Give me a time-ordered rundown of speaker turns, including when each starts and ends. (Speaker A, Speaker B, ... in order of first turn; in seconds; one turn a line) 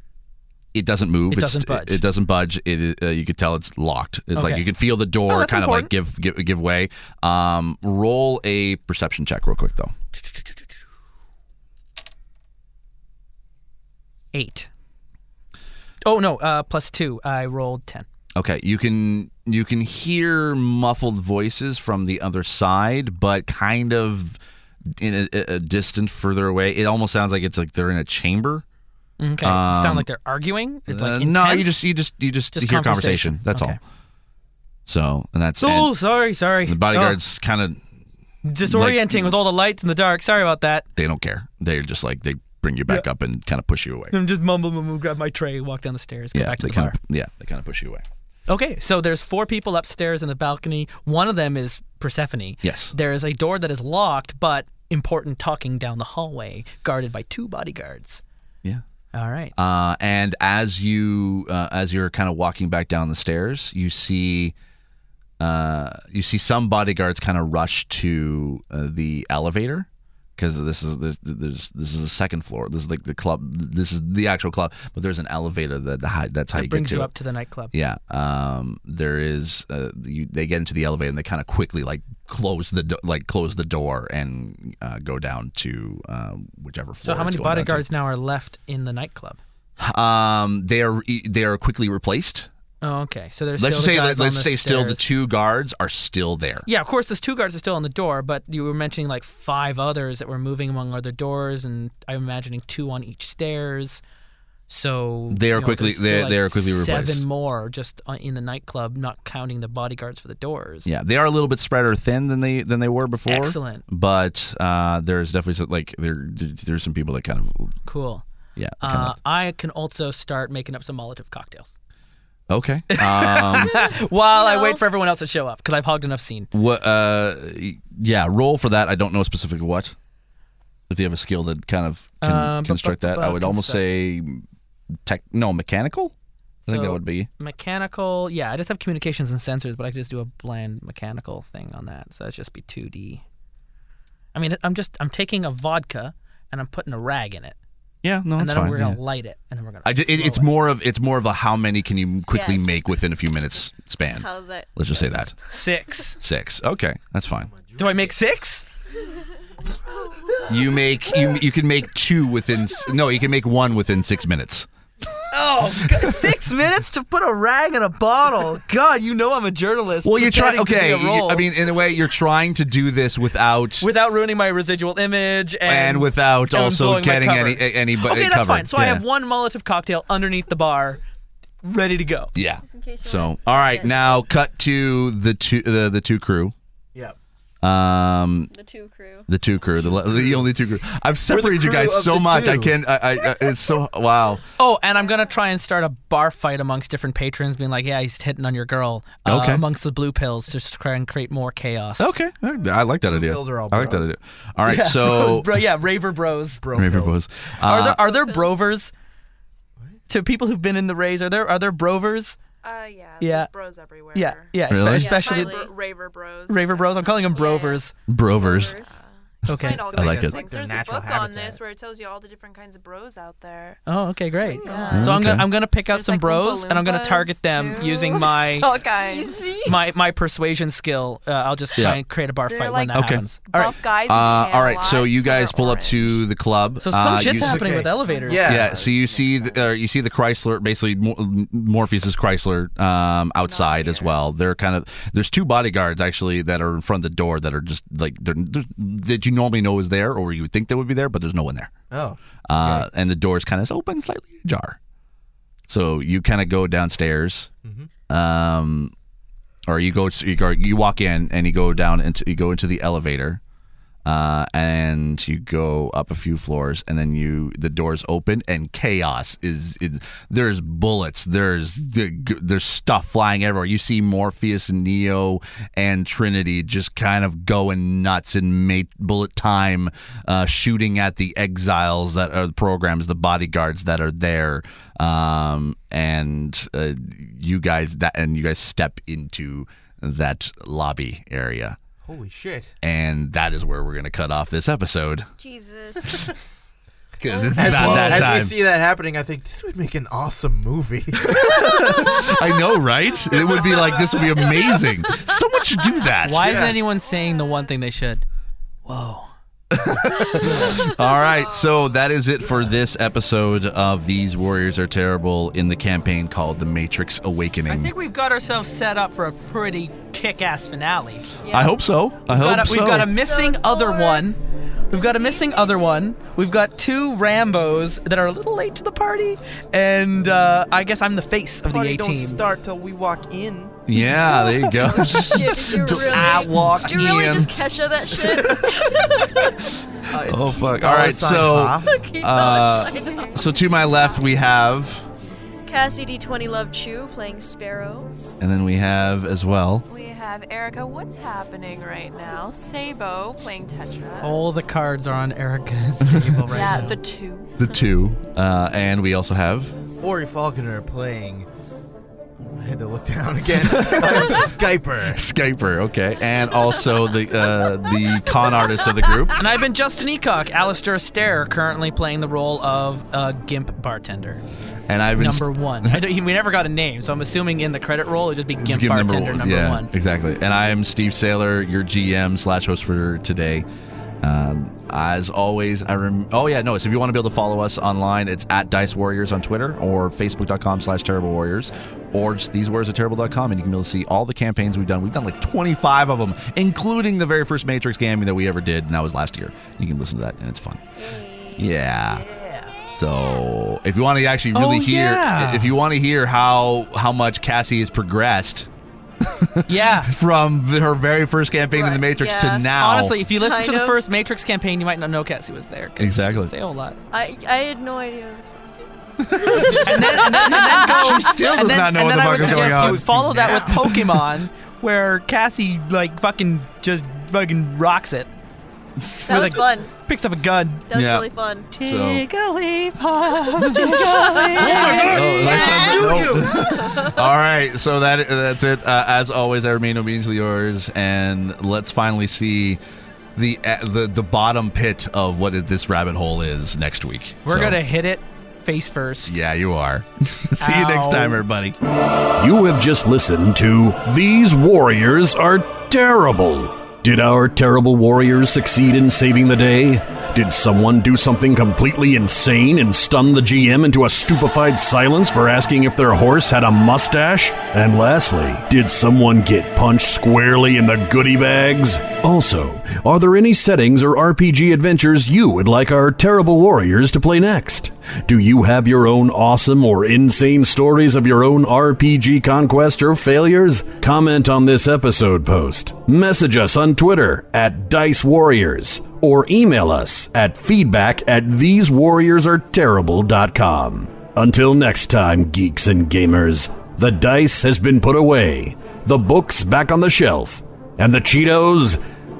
Speaker A: 0.7-9.9
Speaker B: 1.3-2.0
Speaker B: 4.3-5.9
Speaker B: 10.2-10.7
Speaker B: 14.3-14.7
Speaker B: 16.0-18.1
Speaker A: 18.4-24.4
Speaker A: 25.0-28.6
Speaker B: 29.2-31.8
Speaker A: 29.4-30.1
Speaker A: 30.9-33.8
Speaker B: 32.5-33.8
Speaker A: 34.9-35.9
Speaker B: 35.6-37.2
Speaker A: 36.6-37.8
Speaker B: 38.4-40.9
Speaker A: 38.6-39.3
Speaker A: 41.0-44.1
Speaker B: 44.1-47.0
Speaker A: 46.3-48.0
Speaker B: 48.5-58.2
Speaker A: 52.6-52.9
Speaker B: 59.1-59.5
Speaker A: 59.5-64.5
Speaker A: 65.4-77.1
Speaker B: 76.5-77.7
Speaker A: 77.7-87.8
Speaker B: 87.0-89.4
Speaker A: 89.8-92.5
Speaker B: 92.8-95.0
Speaker A: 93.6-96.7
Speaker B: 96.7-104.0
Speaker B: 104.7-110.9
Speaker A: 105.3-107.2
Speaker A: 110.8-117.7
Speaker B: 113.3-113.8
Speaker B: 117.8-118.2
Speaker A: 118.6-119.1
Speaker B: 118.8-121.8
Speaker A: 122.5-123.8
Speaker B: 122.9-126.5
Speaker C: 123.7-124.8
Speaker A: 126.5-129.9
Speaker A: 130.9-134.4
Speaker B: 132.2-133.8
Speaker A: 135.0-136.1
Speaker A: 136.7-137.3
Speaker B: 136.7-143.2
Speaker B: 144.3-147.6
Speaker A: 148.0-149.0
Speaker B: 148.3-150.5
Speaker A: 149.8-155.3
Speaker C: 152.3-152.8
Speaker C: 154.1-155.3
Speaker B: 155.4-156.2
Speaker A: 156.2-157.5
Speaker D: 157.3-158.2
Speaker B: 157.8-158.6
Speaker B: 160.1-160.8
Speaker A: 160.5-164.7
Speaker B: 165.3-171.5
Speaker A: 170.0-173.9
Speaker B: 173.8-181.0
Speaker A: 175.7-179.0
Speaker B: 181.6-182.3
Speaker A: 182.3-186.5
Speaker C: 182.6-184.2
Speaker A: 187.6-188.5
Speaker C: 188.5-189.3
Speaker A: 189.3-194.4
Speaker D: 189.8-190.4
Speaker D: 191.3-192.8
Speaker B: 194.6-202.1
Speaker A: 199.2-199.6
Speaker A: 202.0-205.5
Speaker D: 203.0-204.1
Speaker B: 204.6-206.6
Speaker D: 206.6-207.2
Speaker A: 206.7-208.1
Speaker B: 207.6-208.9
Speaker C: 208.0-208.6
Speaker B: 210.1-212.4
Speaker E: 212.6-217.4
Speaker B: 213.2-213.5
Speaker B: 214.1-215.7
Speaker A: 214.7-215.2
Speaker C: 214.9-215.7
Speaker B: 216.5-217.9
Speaker C: 217.3-217.8
Speaker A: 218.1-218.8
Speaker C: 218.4-219.0
Speaker E: 218.4-223.8
Speaker A: 219.4-220.4
Speaker B: 219.5-219.9
Speaker D: 219.9-221.6
Speaker B: 223.9-228.7
Speaker E: 224.4-229.7
Speaker C: 224.7-224.9
Speaker A: 224.9-225.5
Speaker C: 228.9-229.7
Speaker B: 229.6-233.8
Speaker A: 231.8-232.0
Speaker E: 232.4-236.2
Speaker A: 232.9-233.2
Speaker A: 234.1-237.7
Speaker B: 236.8-238.5
Speaker D: 237.3-238.8
Speaker E: 238.0-239.7
Speaker A: 238.4-251.7
Speaker C: 243.4-244.1
Speaker D: 251.9-252.9
Speaker A: 252.4-254.8
Speaker A: 255.7-257.5
Speaker D: 257.6-257.9
Speaker A: 258.1-258.9
Speaker A: 259.7-263.4
Speaker A: 264.0-291.8
Speaker D: 292.0-292.7
Speaker A: 292.8-295.3
Speaker C: 295.4-296.3
Speaker A: 297.2-298.5
Speaker C: 297.2-298.3
Speaker D: 297.5-301.6
Speaker A: 301.2-306.8
Speaker C: 301.7-302.3
Speaker D: 303.6-304.1
Speaker B: 306.2-308.2
Speaker D: 306.3-306.8
Speaker C: 307.1-307.6
Speaker B: 308.8-309.3
Speaker A: 309.7-317.9
Speaker C: 310.1-310.5
Speaker B: 317.7-321.3
Speaker C: 321.4-321.7
Speaker A: 321.5-323.1
Speaker B: 322.3-332.4
Speaker C: 323.1-324.3
Speaker C: 324.9-326.0
Speaker D: 331.6-333.8
Speaker A: 333.9-337.7
Speaker B: 333.9-336.8
Speaker C: 334.4-339.8
Speaker A: 340.0-345.1
Speaker D: 340.1-342.0
Speaker C: 341.8-344.2
Speaker C: 345.6-348.1
Speaker A: 348.4-349.8
Speaker E: 349.9-354.4
Speaker B: 354.2-357.0
Speaker E: 356.5-357.6
Speaker A: 357.6-359.7
Speaker D: 360.0-361.5
Speaker D: 362.4-365.2
Speaker A: 363.6-364.5
Speaker A: 365.0-369.4
Speaker B: 369.4-374.4
Speaker A: 374.9-376.0
Speaker B: 375.1-379.9
Speaker A: 378.6-383.6
Speaker A: 384.2-400.8
Speaker C: 401.0-401.7
Speaker A: 401.5-402.2
Speaker D: 402.3-402.6
Speaker C: 402.4-403.4
Speaker A: 402.9-413.2
Speaker B: 404.5-405.8
Speaker B: 409.7-410.1
Speaker C: 411.7-412.7
Speaker B: 412.8-417.0
Speaker C: 413.3-414.0
Speaker A: 416.0-416.5
Speaker C: 417.1-421.5
Speaker A: 419.2-424.1
Speaker B: 419.8-428.3
Speaker D: 422.4-424.0
Speaker C: 429.2-429.9
Speaker B: 429.2-430.9
Speaker C: 430.9-431.7
Speaker A: 430.9-432.2
Speaker B: 431.7-435.9
Speaker C: 433.6-437.3
Speaker D: 434.6-436.8
Speaker A: 434.9-442.8
Speaker A: 443.4-447.8
Speaker B: 447.4-449.3
Speaker A: 449.2-451.8
Speaker B: 450.6-451.4
Speaker F: 452.4-502.0